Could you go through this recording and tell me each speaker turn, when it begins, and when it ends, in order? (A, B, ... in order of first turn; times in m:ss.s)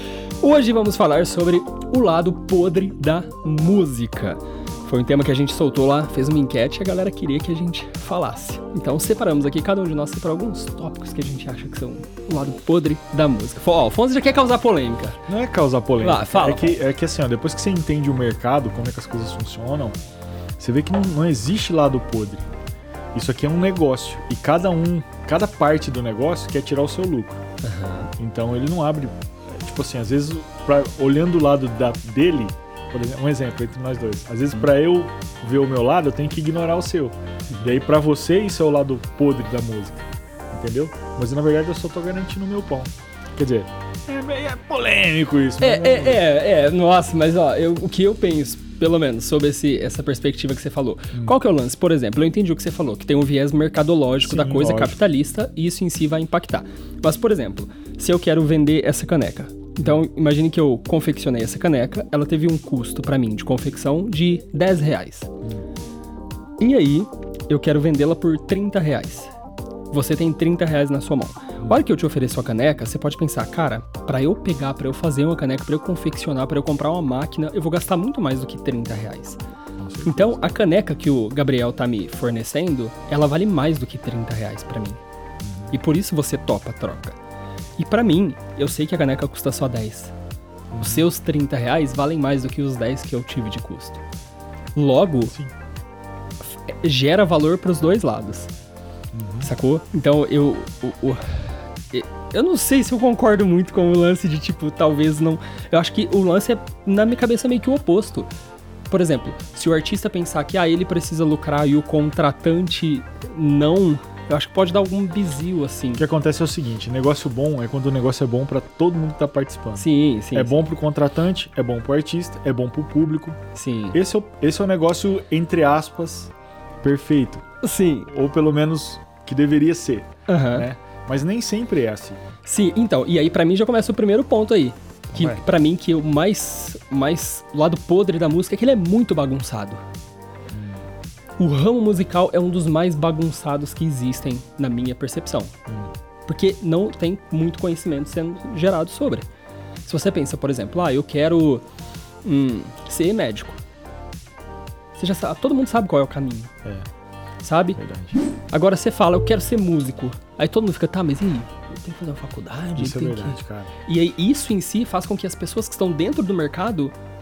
0:00.4-0:15.2 A
0:15.3-0:20.0 B
0:16.0-0:16.8 A
0:20.6-0:22.5 B
0:23.1-0:27.4 B
0:27.6-0:28.1 A
0:28.2-0:46.3 B
0:45.6-1:05.3 A
0:54.2-0:55.0 B
1:06.6-1:09.3 A
1:09.9-1:19.4 A
1:19.8-1:20.5 B
1:20.1-1:25.0 A
1:25.4-1:25.7 B
1:25.7-1:27.2 A
1:27.8-1:30.1 A
1:30.7-1:31.1 B
1:30.8-1:34.0 A
1:34.8-1:35.4 A
1:36.5-1:38.5 A
1:39.1-1:39.5 B
1:39.4-1:48.3 A
1:48.9-1:56.0 A
1:56.0-2:03.4 B
1:59.8-2:00.7 A
2:03.6-2:04.0 A
2:03.9-2:07.4 B
2:07.6-2:08.1 A
2:08.1-2:12.4 B
2:10.3-2:10.7 A
2:12.4-2:19.8 A
2:15.1-2:15.4 B
2:20.5-2:20.9 B
2:21.4-2:25.5 A
2:26.3-2:29.3 A
2:29.9-2:31.6 A
2:32.2-2:33.6 A
2:35.0-2:36.5 A
2:37.4-2:37.8 A
2:37.8-2:38.2 B
2:38.5-2:46.9 A
2:42.8-2:43.7 B